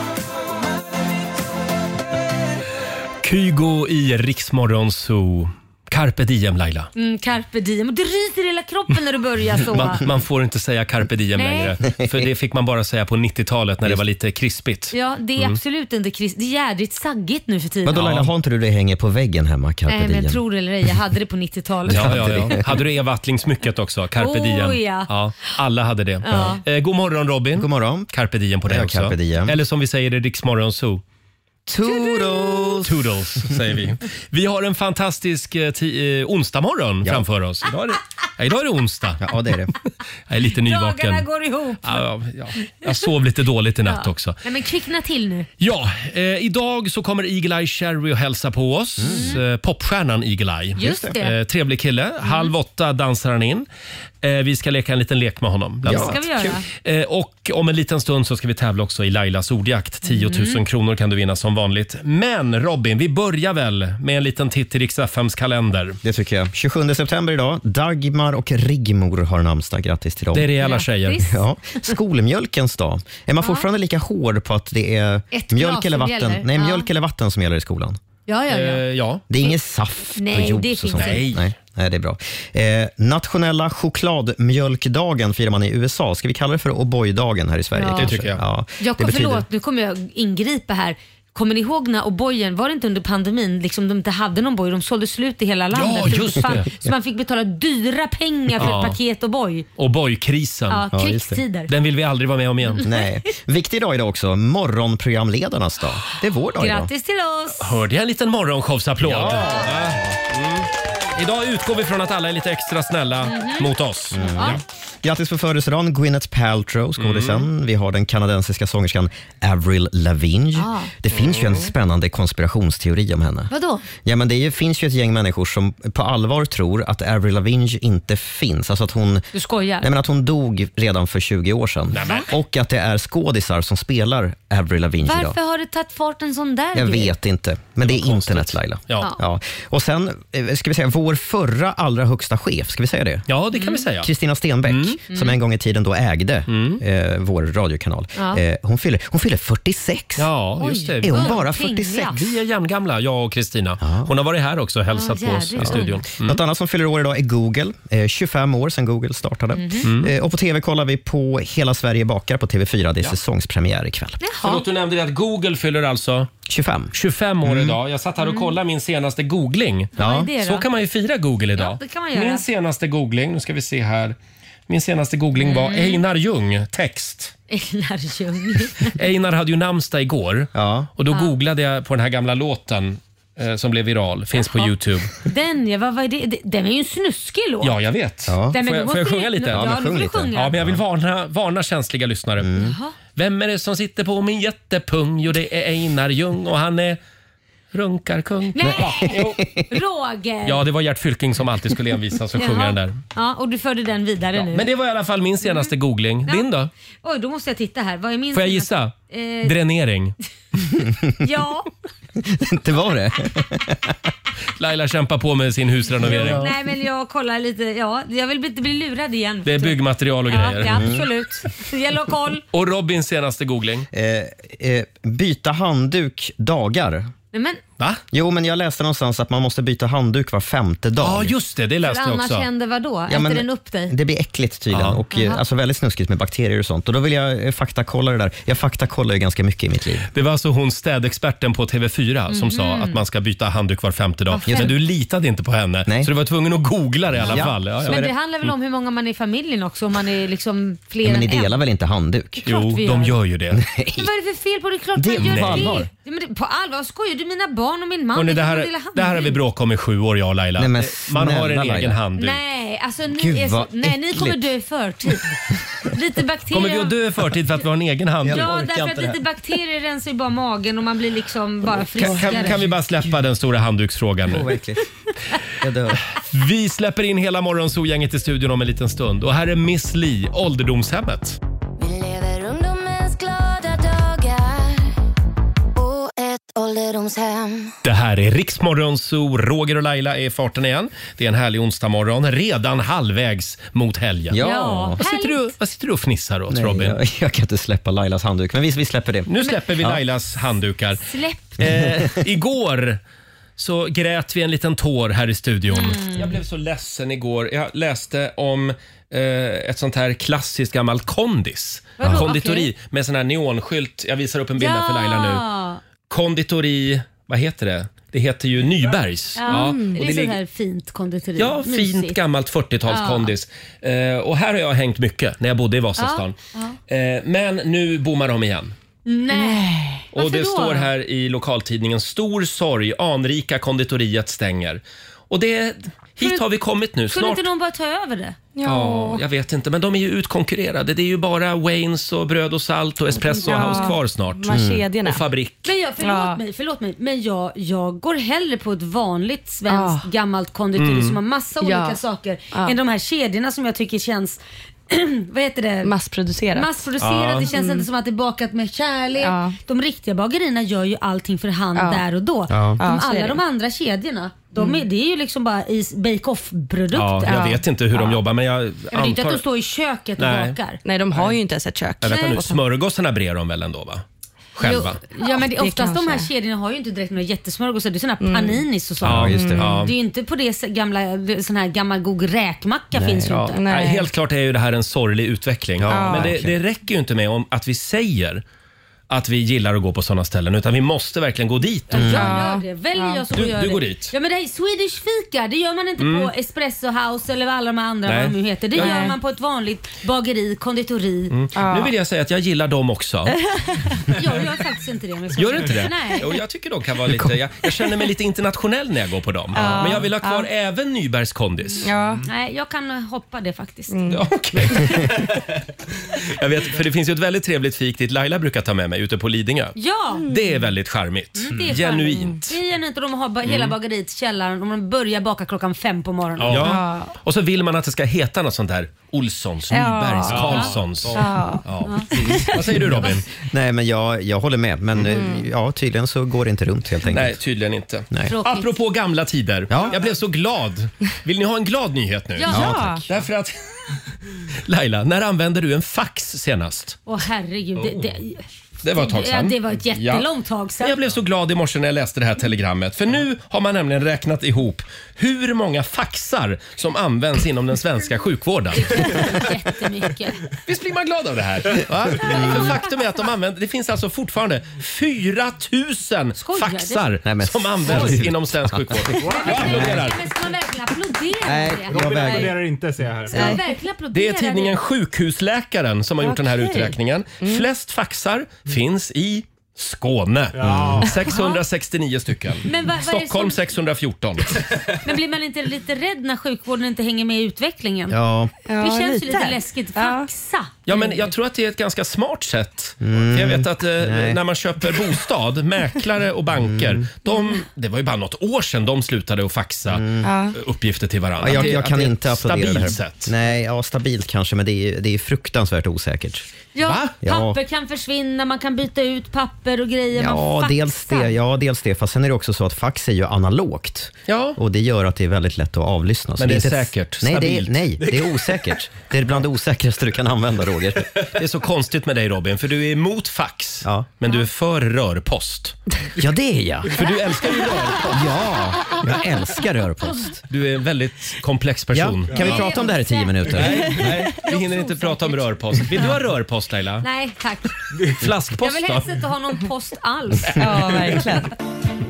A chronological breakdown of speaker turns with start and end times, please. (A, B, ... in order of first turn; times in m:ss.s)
0:03.2-0:06.9 A
0:07.0-0:10.0 B
0:09.7-0:15.6 A
0:11.3-0:11.8 B
0:11.8-0:12.3 C
0:14.9-0:18.0 B
0:17.8-0:20.4 C
0:18.0-0:18.3 A
0:19.9-0:22.7 B
0:21.9-0:22.8 C
0:21.9-0:31.0 A
0:24.2-0:25.1 B
0:26.2-0:26.6 B
0:27.6-0:28.1 C
0:28.6-0:29.6 C
0:31.7-0:33.5 C
0:31.9-0:32.7 B
0:32.8-0:39.3 A
0:39.2-0:39.7 C
0:40.3-0:41.2 A
0:40.6-0:42.1 B
0:41.8-0:44.4 A
0:43.9-0:45.5 B
0:45.6-0:53.7 A
0:49.0-0:49.4 C
0:49.0-0:49.4 B
0:50.8-0:51.4 B
0:50.8-0:51.2 C
0:52.2-0:52.5 B
0:54.2-1:06.0 A
0:55.8-0:56.6 C
0:55.9-0:56.6 B
1:00.1-1:00.6 B
1:06.0-1:10.5 C
1:10.3-1:11.3 A
1:10.6-1:11.9 B
1:11.3-1:18.0 C
1:13.4-1:13.7 B
1:15.3-1:16.9 B
1:18.3-1:18.8 B
1:18.5-1:19.2 A
1:19.3-1:29.4 C
1:20.2-1:21.3 B
1:20.9-1:21.4 A
1:27.8-1:28.1 B
1:27.9-1:28.4 A
1:28.8-1:39.7 B
1:35.7-1:36.7 A
1:38.6-1:39.0 A
1:39.8-1:40.9 A
1:40.7-1:41.7 B
1:40.9-1:41.4 C
1:41.7-1:42.9 A
1:42.8-1:46.9 C
1:46.6-1:47.8 B
1:47.6-1:54.6 A
1:49.0-1:49.9 C
1:49.3-1:49.6 B
1:53.2-1:54.6 B
1:54.1-2:09.2 C
1:57.0-1:57.5 A
2:00.6-2:00.9 B
2:03.5-2:03.8 B
2:09.3-2:09.9 B
2:09.8-2:15.4 C
2:11.9-2:12.3 A
2:12.0-2:12.3 B
2:15.0-2:17.1 B
2:16.7-2:23.3 C
2:17.9-2:19.1 A
2:23.3-2:24.1 A
2:23.6-2:23.8 B
2:24.0-2:30.3 C
2:24.7-2:25.0 A
2:25.1-2:25.4 B
2:26.5-2:26.8 A
2:28.2-2:28.4 B
2:30.2-2:31.4 A
2:30.6-2:32.2 B
2:31.0-2:32.3 C
2:32.3-2:36.4 A
2:33.8-2:34.1 C
2:34.9-2:36.0 B
2:35.6-2:44.2 C
2:39.5-2:39.9 B
2:39.8-2:40.1 A
2:44.2-2:44.6 B
2:44.4-2:46.3 A
2:46.5-2:46.9 C
2:46.9-2:54.2 A
2:47.4-2:47.8 C
2:48.2-2:48.5 B
2:50.0-2:50.3 C
2:50.0-2:50.6 B
2:51.6-2:52.5 B
2:54.7-2:57.3 A
2:55.4-2:56.0 B
2:57.5-2:59.0 B
2:58.9-3:05.1 A
3:00.5-3:00.9 C
3:01.1-3:01.3 B
3:04.3-3:07.7 B
3:07.6-3:09.7 A
3:08.3-3:08.6 C
3:08.5-3:10.5 B
3:09.5-3:10.8 C
3:10.4-3:12.5 A
3:12.4-3:12.8 C
3:12.6-3:13.0 B
3:13.2-3:17.0 A
3:17.7-3:19.4 A
3:18.6-3:20.6 B
3:18.6-3:19.7 C
3:20.4-3:23.0 A
3:22.4-3:24.7 B
3:24.4-3:26.7 A
3:25.4-3:25.7 B
3:27.0-3:29.6 B
3:28.3-3:30.2 A
3:31.2-3:31.7 B
3:32.2-3:34.1 C
3:34.6-3:36.5 A
3:36.0-3:36.5 C
3:36.1-3:42.4 B
3:39.4-3:40.9 A
3:40.6-3:41.1 C
3:42.5-3:43.9 A
3:43.9-3:47.1 C
3:47.3-3:47.6 B
3:48.1-3:51.3 C
3:51.0-3:52.5 A
3:51.8-3:53.9 B
3:53.1-4:00.1 C
3:54.7-3:55.0 A
3:55.1-3:55.4 B
4:00.1-4:08.5 A
4:02.3-4:03.0 B
4:04.3-4:04.8 B
4:04.5-4:04.8 C
4:05.9-4:06.1 C
4:07.2-4:08.2 C
4:07.2-4:11.6 B
4:11.0-4:12.4 C
4:12.4-4:13.2 B
4:12.5-4:13.6 A
4:13.5-4:14.1 C
4:14.0-4:19.4 B
4:15.0-4:15.9 C
4:15.2-4:15.8 A
4:18.1-4:22.4 A
4:20.6-4:22.0 C
4:22.2-4:26.9 B
4:23.1-4:24.5 C
4:26.5-4:28.5 A
4:28.2-4:29.2 C
4:28.3-4:32.6 B
4:31.9-4:34.5 A
4:32.0-4:32.7 C
4:34.3-4:34.8 C
4:35.6-4:36.0 C
4:36.0-4:41.4 A
4:41.8-4:44.9 D
4:45.8-4:47.7 D
4:47.8-4:54.5 A
4:54.3-4:55.0 C
4:54.4-4:55.5 B
4:55.0-4:57.0 A
4:56.5-5:00.0 C
4:59.3-5:03.0 A
5:01.0-5:01.6 B
5:01.6-5:02.1 C
5:03.6-5:15.5 A
5:05.7-5:06.3 B
5:12.0-5:12.7 B
5:14.6-5:15.8 B
5:16.1-5:20.4 A
5:19.4-5:22.2 B
5:19.5-5:20.0 E
5:21.4-5:26.4 A
5:22.9-5:23.3 B
5:26.0-5:26.8 B
5:26.9-5:28.8 A
5:29.1-5:30.9 B
5:29.3-5:30.1 E
5:30.1-5:37.5 A
5:37.1-5:38.4 B
5:38.6-5:39.2 E
5:38.6-5:45.6 A
5:43.1-5:45.3 E
5:43.5-5:43.7 B
5:44.5-5:44.8 C
5:45.6-5:55.9 B
5:46.0-5:46.4 E
5:49.7-5:50.1 E
5:50.8-5:51.2 A
5:51.6-5:52.0 E
5:55.8-5:56.8 E
5:56.5-6:07.4 B
5:57.0-5:57.5 A
5:57.4-5:57.9 E
5:59.2-5:59.6 E
6:01.8-6:02.0 E
6:02.5-6:02.8 C
6:02.8-6:03.4 E
6:04.6-6:04.8 E
6:06.9-6:09.4 A
6:07.2-6:08.2 E
6:08.9-6:10.8 B
6:10.2-6:10.6 A
6:10.8-6:12.6 E
6:12.0-6:14.0 A
6:12.1-6:12.4 B
6:14.6-6:15.0 A
6:14.6-6:23.6 B
6:15.1-6:16.3 E
6:18.2-6:18.6 E
6:19.0-6:19.9 C
6:19.0-6:20.0 A
6:22.9-6:23.6 C
6:23.5-6:24.1 E
6:23.7-6:28.4 A
6:25.8-6:26.6 C
6:25.9-6:26.3 E
6:29.1-6:32.1 A
6:31.9-6:41.3 B
6:32.0-6:32.2 C
6:32.0-6:33.2 E
6:33.3-6:34.1 A
6:36.0-6:36.3 A
6:38.1-6:39.1 A
6:38.8-6:39.2 E
6:41.3-6:43.4 A
6:41.6-6:41.9 E
6:43.3-6:43.9 E
6:44.1-6:46.2 B
6:45.4-6:51.9 A
6:49.5-6:50.5 E
6:49.6-6:49.9 B
6:51.8-6:52.2 E
6:52.2-6:54.0 B
6:53.9-6:54.2 E
6:54.1-6:55.4 A
6:56.2-6:59.8 A
6:59.8-7:00.3 B
7:00.2-7:00.6 E
7:00.3-7:02.6 A
7:01.4-7:06.8 B
7:03.4-7:03.8 A
7:06.5-7:13.3 A
7:06.6-7:07.1 E
7:09.7-7:11.7 E
7:10.3-7:11.2 F
7:12.1-7:17.4 C
7:12.2-7:12.7 E
7:15.1-7:15.4 E
7:17.1-7:23.5 A
7:18.3-7:18.7 B
7:19.7-7:19.9 C
7:22.4-7:22.7 B
7:22.5-7:23.0 C
7:22.5-7:23.0 E
7:24.7-7:27.0 A
7:27.1-7:28.4 B
7:28.8-7:30.3 A
7:29.0-7:31.0 B
7:30.8-7:39.4 A
7:38.7-7:40.4 B
7:40.6-7:50.3 A
7:42.2-7:42.7 C
7:46.4-7:47.0 B
7:47.2-7:49.1 C
7:47.9-7:48.2 F
7:49.3-7:50.1 F
7:49.3-7:52.6 B
7:51.4-7:52.5 C
7:51.9-7:53.5 F
7:53.3-7:53.6 E
7:53.3-7:54.8 B
7:54.1-8:04.6 A
7:56.2-7:57.7 E
8:00.5-8:01.1 F
8:00.6-8:01.1 C
8:01.2-8:01.6 B
8:02.6-8:03.6 B
8:05.0-8:08.2 B
8:08.1-8:08.5 C
8:08.7-8:10.3 E
8:08.8-8:10.8 B
8:10.9-8:23.3 A
8:10.9-8:11.2 E
8:13.0-8:14.4 C
8:16.6-8:17.1 C
8:19.9-8:20.3 C
8:20.2-8:20.6 E
8:21.4-8:26.5 C
8:26.8-8:31.4 B
8:26.8-8:27.1 A
8:27.2-8:27.6 C
8:30.2-8:41.1 C
8:34.3-8:34.6 A
8:36.4-8:37.9 A
8:41.4-8:45.8 A
8:43.8-8:44.1 C
8:46.2-8:47.0 C
8:46.9-8:48.2 A
8:48.0-8:50.4 C
8:50.5-8:52.7 A
8:51.9-8:54.1 C
8:52.4-8:53.7 B
8:53.5-8:57.1 A
8:54.4-8:56.1 B
8:57.0-8:57.7 B
8:58.0-8:59.2 A
8:58.6-9:01.2 B
9:00.5-9:01.2 A
9:00.6-9:01.5 E